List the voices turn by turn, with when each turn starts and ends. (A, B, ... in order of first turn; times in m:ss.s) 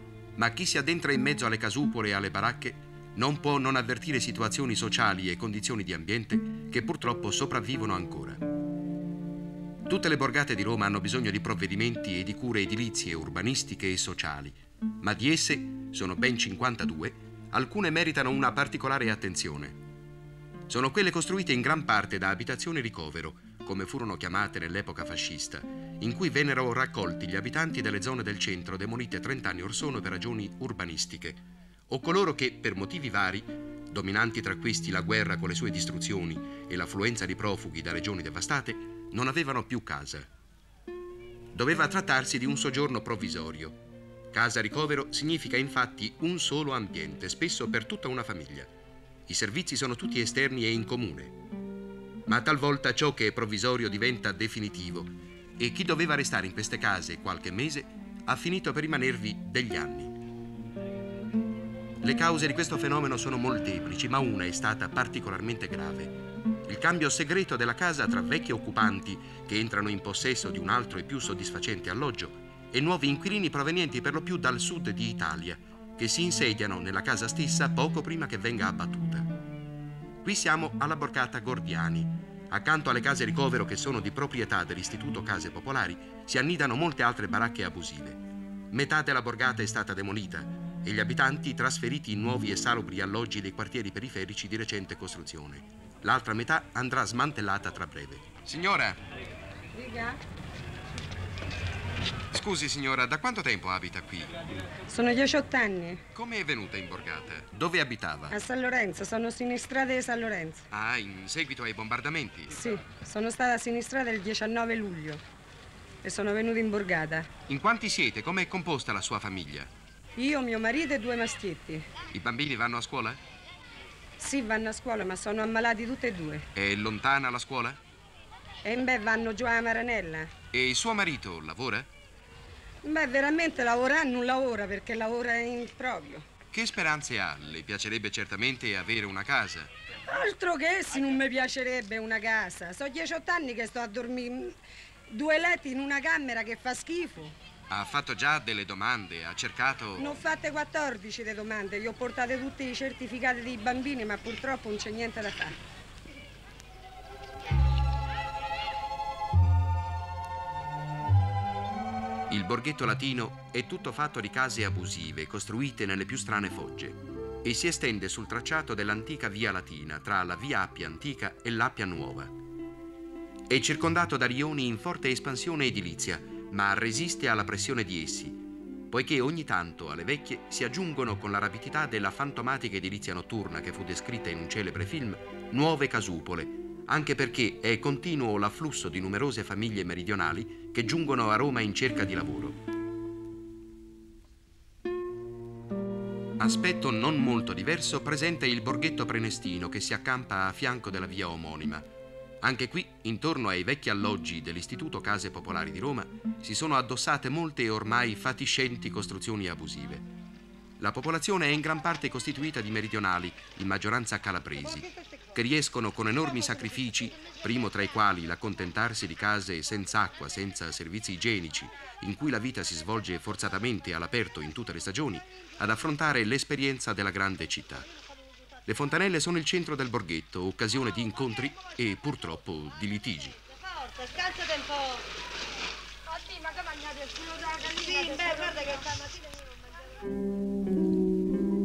0:00.4-0:08.4 A
0:09.8-0:19.8 A
0:20.7-0:40.3 A
0:41.5-0:43.8 A
0:44.3-0:48.7 A
0:49.3-0:51.4 A
0:52.2-1:00.2 A
1:02.0-1:19.3 A
1:20.2-1:39.0 A
1:39.7-1:40.2 B
1:42.3-1:44.4 A
1:44.9-1:46.0 B
1:46.1-1:48.4 A
1:48.3-1:50.6 B
1:50.7-1:52.6 A
1:52.5-1:55.2 B
1:56.0-1:57.3 B
1:57.5-1:59.7 A
2:00.2-2:01.9 B
2:02.1-2:03.2 A
2:04.2-2:06.5 B
2:06.5-2:07.8 A
2:08.6-2:10.3 B
2:10.5-2:11.9 A
2:12.8-2:16.2 B
2:16.5-2:19.7 A
2:20.0-2:24.6 B
2:25.1-2:27.4 B
2:27.7-2:30.1 A
2:30.0-2:35.6 B
2:42.3-2:52.3 A
2:53.5-3:12.6 A
3:16.4-3:21.8 A
3:22.4-3:30.1 A
3:30.8-3:47.9 A
3:48.6-3:53.4 A
3:56.2-3:59.0 B